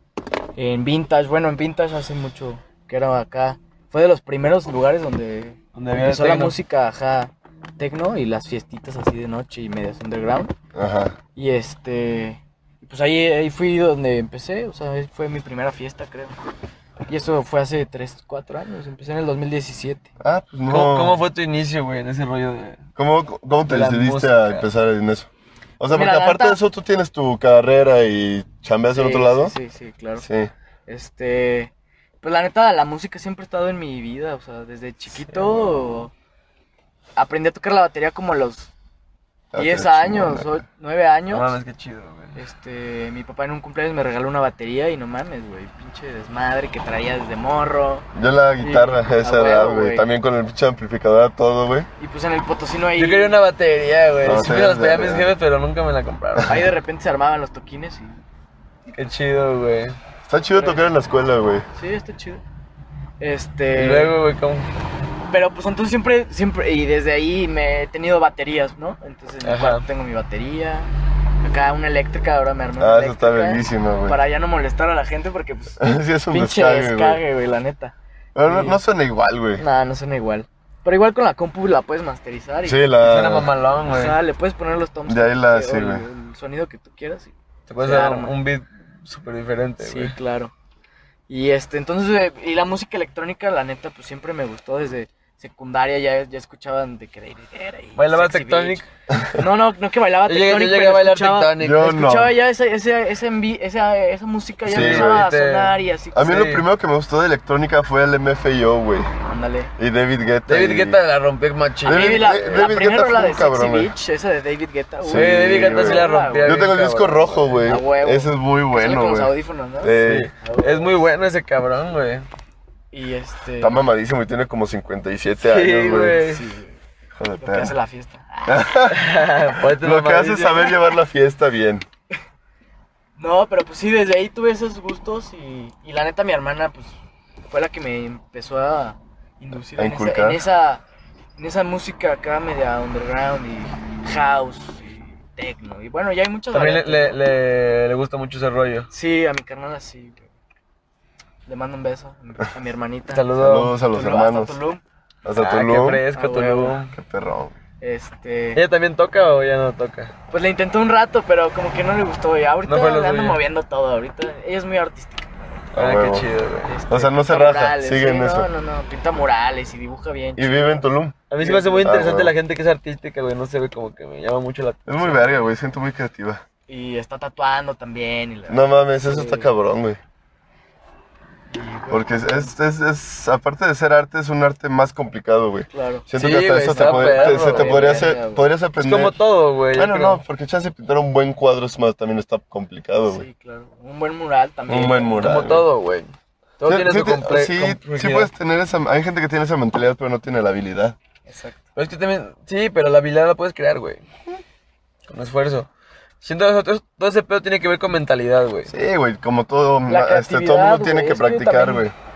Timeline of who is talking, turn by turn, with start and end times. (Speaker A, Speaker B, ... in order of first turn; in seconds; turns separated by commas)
Speaker A: 0.6-10.5, Speaker B: 5.7-6.5, Speaker C: 10.7-11.2, Speaker A: 11.3-16.4, Speaker A: 17.1-20.1, Speaker C: 20.2-21.2, Speaker B: 20.7-22.8, Speaker C: 23.0-25.3, Speaker B: 23.7-24.7, Speaker C: 25.8-29.5, Speaker A: 25.9-26.6, Speaker A: 28.9-30.3, Speaker C: 30.2-30.5, Speaker A: 30.9-36.1, Speaker A: 37.1-38.7, Speaker C: 39.5-40.6, Speaker A: 39.5-41.5, Speaker B: 41.3-42.4, Speaker A: 42.4-48.1, Speaker C: 48.1-51.9, Speaker A: 48.6-50.0, Speaker A: 52.0-53.4, Speaker B: 53.0-56.7, Speaker C: 54.2-55.3, Speaker A: 56.4-58.2, Speaker B: 58.9-60.0, Speaker C: 60.2-61.6, Speaker A: 60.5-60.9, Speaker A: 61.7-62.4, Speaker A: 63.2-64.1, Speaker B: 63.7-64.7, Speaker A: 65.3-70.9, Speaker B: 69.4-69.8, Speaker A: 71.4-77.9, Speaker C: 72.8-74.2, Speaker C: 75.8-77.2, Speaker C: 78.3-79.6, Speaker A: 78.5-78.8, Speaker A: 79.6-82.9, Speaker C: 82.6-83.5, Speaker B: 83.0-84.2, Speaker A: 83.9-88.3, Speaker C: 85.1-86.0, Speaker B: 87.7-90.1, Speaker A: 89.8-90.5, Speaker A: 91.3-98.8, Speaker B: 98.0-98.8, Speaker C: 99.1-99.4, Speaker A: 99.3-106.5, Speaker B: 100.2-101.9, Speaker C: 101.6-102.3, Speaker C: 104.7-105.2, Speaker B: 104.7-105.7, Speaker C: 106.1-109.1, Speaker B: 106.3-106.6, Speaker A: 109.2-109.7, Speaker C: 109.8-111.0, Speaker B: 110.5-112.7, Speaker C: 111.8-113.9, Speaker A: 111.9-116.7, Speaker C: 115.0-120.3, Speaker B: 115.1-117.6, Speaker A: 117.6-120.9, Speaker B: 120.0-122.2, Speaker A: 122.9-123.8, Speaker C: 123.6-126.2, Speaker B: 125.4-126.4, Speaker A: 125.9-126.7, Speaker C: 127.2-127.7, Speaker A: 127.4-128.8, Speaker C: 128.5-131.8, Speaker B: 128.9-130.7, Speaker A: 133.2-136.9, Speaker A: 137.5-140.8, Speaker C: 139.8-140.4, Speaker A: 141.4-147.2, Speaker B: 146.5-148.9, Speaker A: 148.9-150.3, Speaker A: 151.5-153.2, Speaker B: 153.1-153.7, Speaker C: 153.4-154.6, Speaker A: 153.9-154.8, Speaker C: 155.2-156.0, Speaker B: 155.4-156.9, Speaker A: 156.1-156.8, Speaker C: 156.9-157.5, Speaker A: 157.8-158.6, Speaker B: 158.5-160.1, Speaker A: 160.3-165.3, Speaker B: 162.6-163.4, Speaker C: 165.7-166.3, Speaker B: 165.8-166.7, Speaker A: 166.6-170.8, Speaker C: 166.9-168.5, Speaker C: 170.4-172.3, Speaker B: 171.3-175.3, Speaker C: 174.9-176.4, Speaker A: 176.7-179.5, Speaker C: 178.5-180.0, Speaker A: 181.5-182.5, Speaker C: 181.9-189.2, Speaker A: 185.7-188.5, Speaker B: 186.2-188.0, Speaker B: 188.8-190.2, Speaker C: 189.7-193.2, Speaker A: 193.1-195.3, Speaker C: 194.7-195.7, Speaker B: 195.2-198.3, Speaker C: 196.7-200.9, Speaker A: 201.3-201.6, Speaker B: 201.8-204.0, Speaker B: 205.1-205.7, Speaker B: 206.2-208.7, Speaker C: 208.7-211.9, Speaker A: 209.9-211.8